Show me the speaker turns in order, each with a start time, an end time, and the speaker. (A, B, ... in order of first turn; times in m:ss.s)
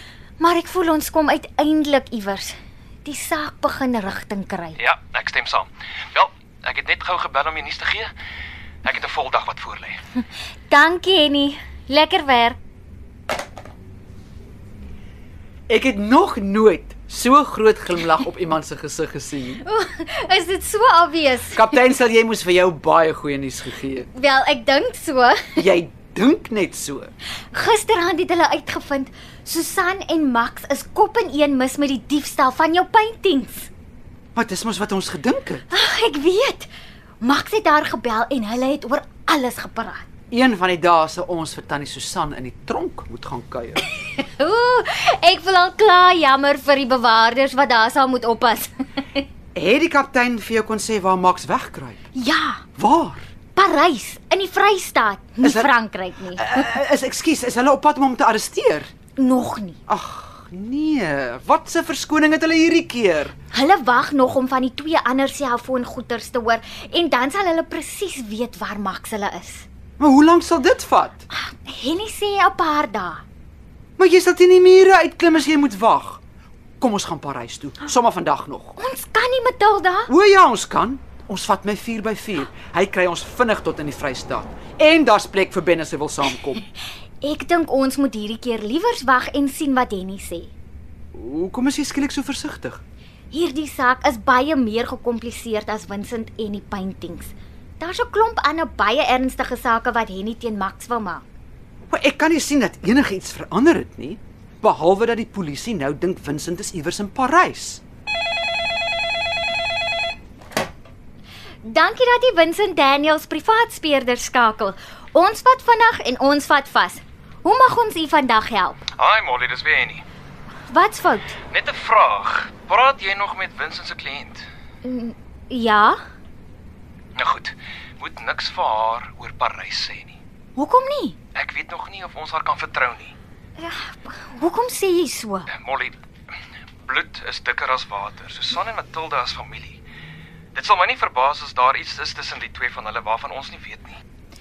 0:00.4-0:04.8 A
0:04.8-0:08.1 B
0:08.8-0:10.0 B
0:10.7-0:12.6 A
0:15.7-0:19.6 C
0:19.6-0:21.7 A
0:21.5-0:24.1 C
0:24.1-0:25.6 A
0:25.6-0:27.1 C
0:27.5-0:33.7 A
0:34.3-0:35.6 C
0:35.7-0:36.7 A
0:37.2-0:40.0 A
0:40.3-0:43.8 C
0:43.9-0:49.2 A
0:49.5-0:52.0 C
0:52.1-0:52.6 A
0:52.8-0:53.2 C
0:53.5-0:56.6 A
0:55.4-0:55.7 C
0:56.3-0:58.9 C
0:59.2-0:59.8 A
0:59.9-1:03.3 C
1:03.5-1:09.6 A
1:10.0-1:11.2 C
1:11.3-1:13.2 A
1:14.0-1:16.2 C
1:16.8-1:18.8 C
1:18.8-1:20.1 A
1:20.1-1:26.6 C
1:27.2-1:30.5 A
1:31.1-1:32.8 C
1:33.3-1:41.2 A
1:41.9-1:47.8 C
1:51.6-1:58.8 A
1:59.0-2:00.0 B
2:00.7-2:01.4 A
2:01.5-2:04.4 B
2:04.8-2:06.0 A
2:07.2-2:10.2 B
2:10.6-2:11.2 A
2:11.3-2:13.1 B
2:13.6-2:15.5 A
2:15.5-2:16.0 B
2:16.8-2:19.8 B
2:20.5-2:24.0 B